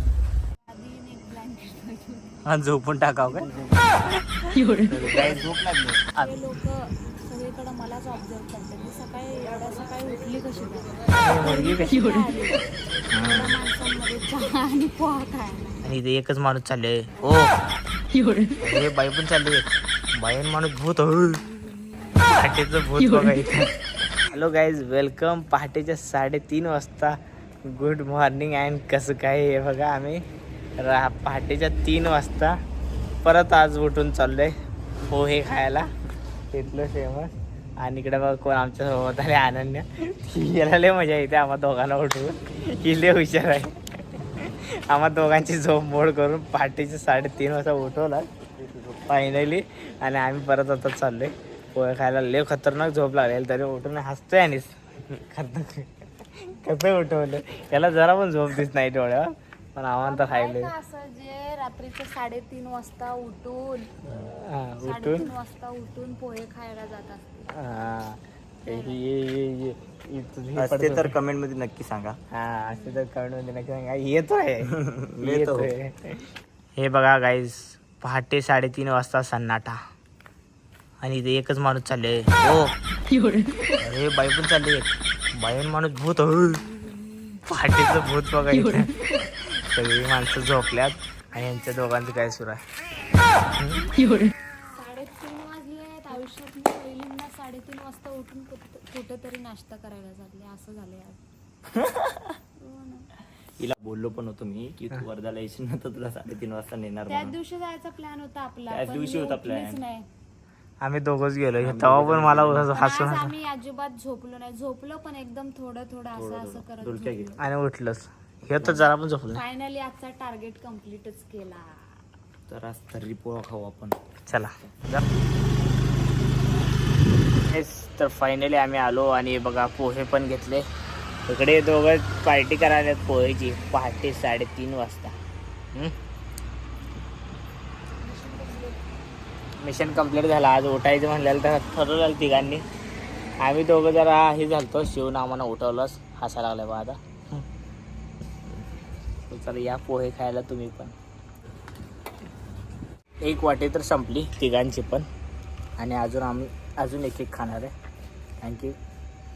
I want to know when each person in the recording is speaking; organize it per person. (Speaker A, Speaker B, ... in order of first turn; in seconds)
Speaker A: 0.7-2.5, 6.1-12.6, 13.2-15.8, 47.4-47.8, 60.0-63.9, 64.8-67.2, 68.6-69.0, 72.7-73.0, 94.7-101.2, 102.6-103.1, 107.1-110.0, 112.7-117.4, 119.3-121.9, 138.0-138.8
Speaker B: 2.4-6.3, 11.1-12.0, 13.1-13.6, 15.8-17.5, 18.6-21.4, 22.1-23.7, 24.2-30.2, 30.8-32.5, 33.2-34.5, 35.1-35.9, 36.5-48.3, 49.1-60.7, 64.1-65.3, 67.5-71.2, 72.3-79.8, 81.0-82.7, 83.8-86.7, 87.5-92.6, 93.6-93.9, 110.8-113.3, 117.4-119.4, 124.3-125.0, 127.5-130.6, 131.3-135.2, 139.6-142.6, 143.4-147.4, 149.3-150.9, 153.2-155.1, 155.8-157.7, 158.4-158.8
Speaker C: 48.6-49.0, 70.5-72.2, 74.8-75.7, 103.6-107.4, 108.7-109.8, 111.6-112.7, 116.1-117.4, 122.5-124.0